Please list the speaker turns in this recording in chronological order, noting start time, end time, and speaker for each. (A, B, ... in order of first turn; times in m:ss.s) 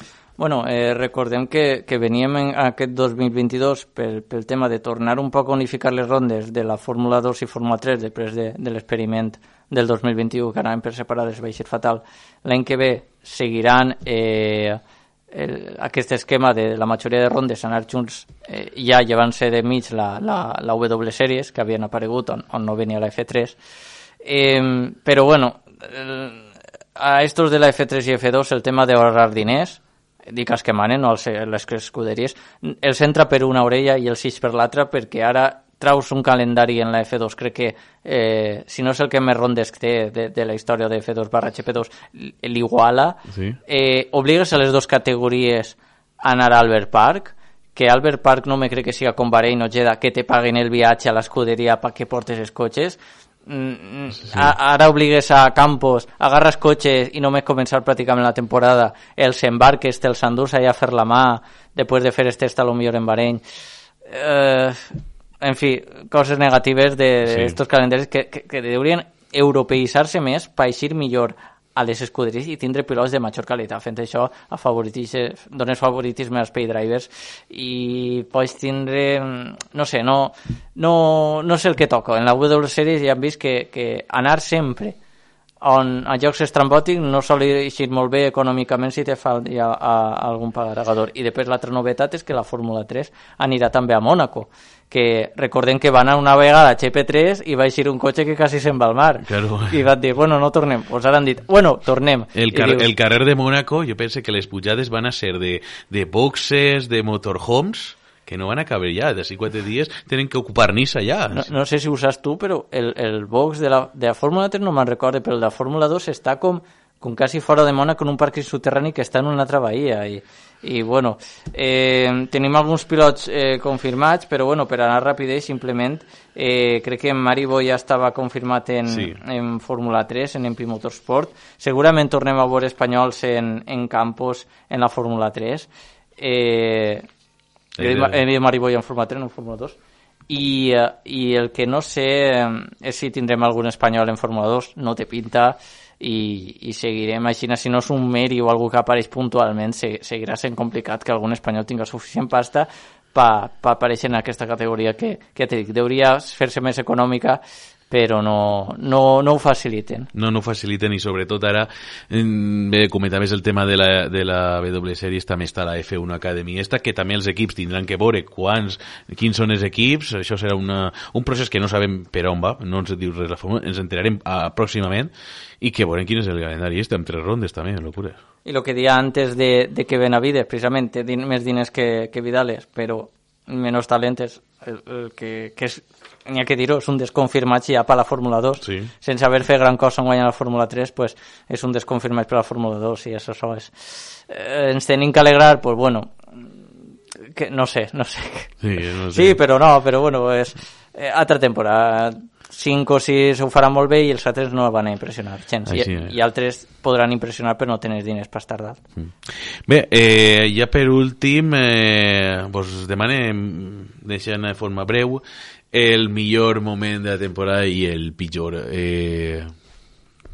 0:00.4-0:14.8 A
0:15.3-0:23.6 A
0:24.2-0:26.4 A
0:27.0-1:03.4 A
0:43.3-0:43.6 B
1:04.1-1:04.9 A
1:05.4-1:25.0 A
1:07.3-1:07.6 B
1:25.6-1:42.9 A
1:39.2-1:39.8 B
1:42.4-1:51.5 B
1:51.3-2:17.1 A
2:08.9-2:09.2 B
2:17.8-2:18.2 B
2:17.8-2:19.8 A
2:20.3-2:40.1 A
2:40.1-2:58.2 B
2:58.4-3:16.5 A
3:08.6-3:08.9 B
3:17.3-3:28.8 A
3:18.6-3:19.4 B
3:25.7-3:26.1 B
3:29.0-3:39.5 B